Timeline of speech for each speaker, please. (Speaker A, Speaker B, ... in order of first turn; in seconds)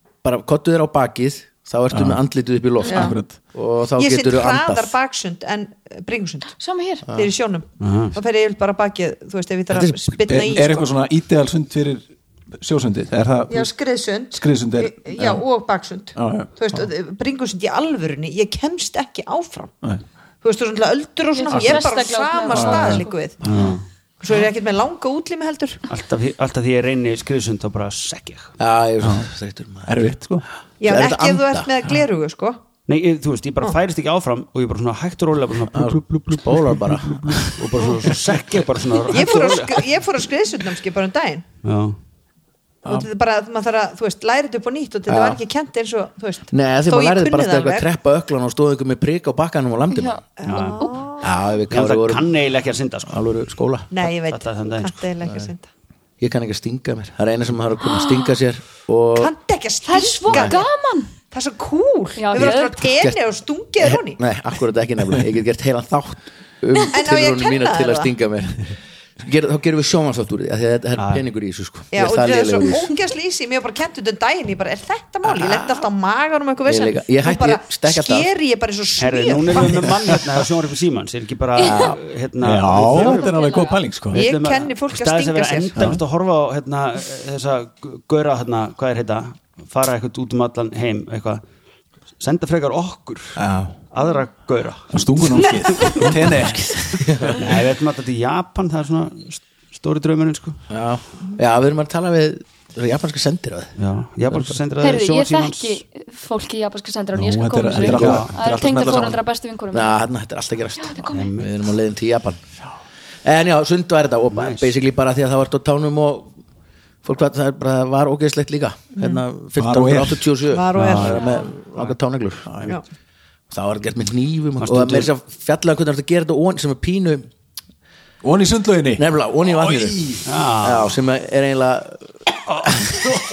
Speaker A: 0.2-5.0, 7.1-7.3, 9.7-10.6, 28.6-29.9, 30.8-31.7, 35.7-37.5, 45.1-45.4, 46.5-50.2, 51.2-52.3, 53.1-53.9, 56.2-59.3, 62.4-63.2, 63.8-72.9, 75.2-75.8, 76.7-78.3, 81.6-82.0, 97.0-97.4, 100.7-103.8, 109.7-112.4, 113.2-116.3, 117.0-122.7, 123.5-127.3, 129.0-130.0, 130.6-133.2
Speaker B: 1.9-2.2, 2.9-3.4, 10.3-12.0, 12.6-13.7, 14.3-15.4, 16.1-16.8, 21.5-21.8, 22.5-23.1, 29.0-29.3, 29.9-30.5, 82.4-84.2, 94.9-97.3, 107.2-109.2, 119.6-121.1, 122.5-122.8, 128.2-130.2
Speaker C: 2.9-3.2, 4.0-6.5, 7.1-10.9, 13.5-19.7, 20.4-23.4, 24.2-25.8, 30.8-32.6, 39.1-41.5, 42.9-47.9, 50.4-51.3, 53.9-55.7, 59.1-60.6, 61.3-64.2, 66.9-68.1, 71.9-79.9, 84.1-85.9, 119.0-119.2, 120.5-121.5
Speaker D: 6.6-7.0, 21.3-23.1, 49.9-51.0, 57.8-58.4, 59.9-61.1, 62.2-62.9, 81.6-81.9, 82.8-83.8, 104.8-110.0, 110.8-111.3, 121.2-121.5
Speaker E: 7.8-8.2, 23.4-23.8, 25.9-28.6, 32.9-39.9, 41.6-42.0, 50.4-50.9, 51.7-53.3, 54.2-55.0, 71.0-71.2, 79.0-83.3, 84.1-91.4, 92.2-93.4, 93.9-96.1, 97.3-100.6, 103.8-105.8, 107.8-108.3, 111.1-111.5, 114.3-114.7, 120.8-121.2, 124.6-125.1, 130.2-131.0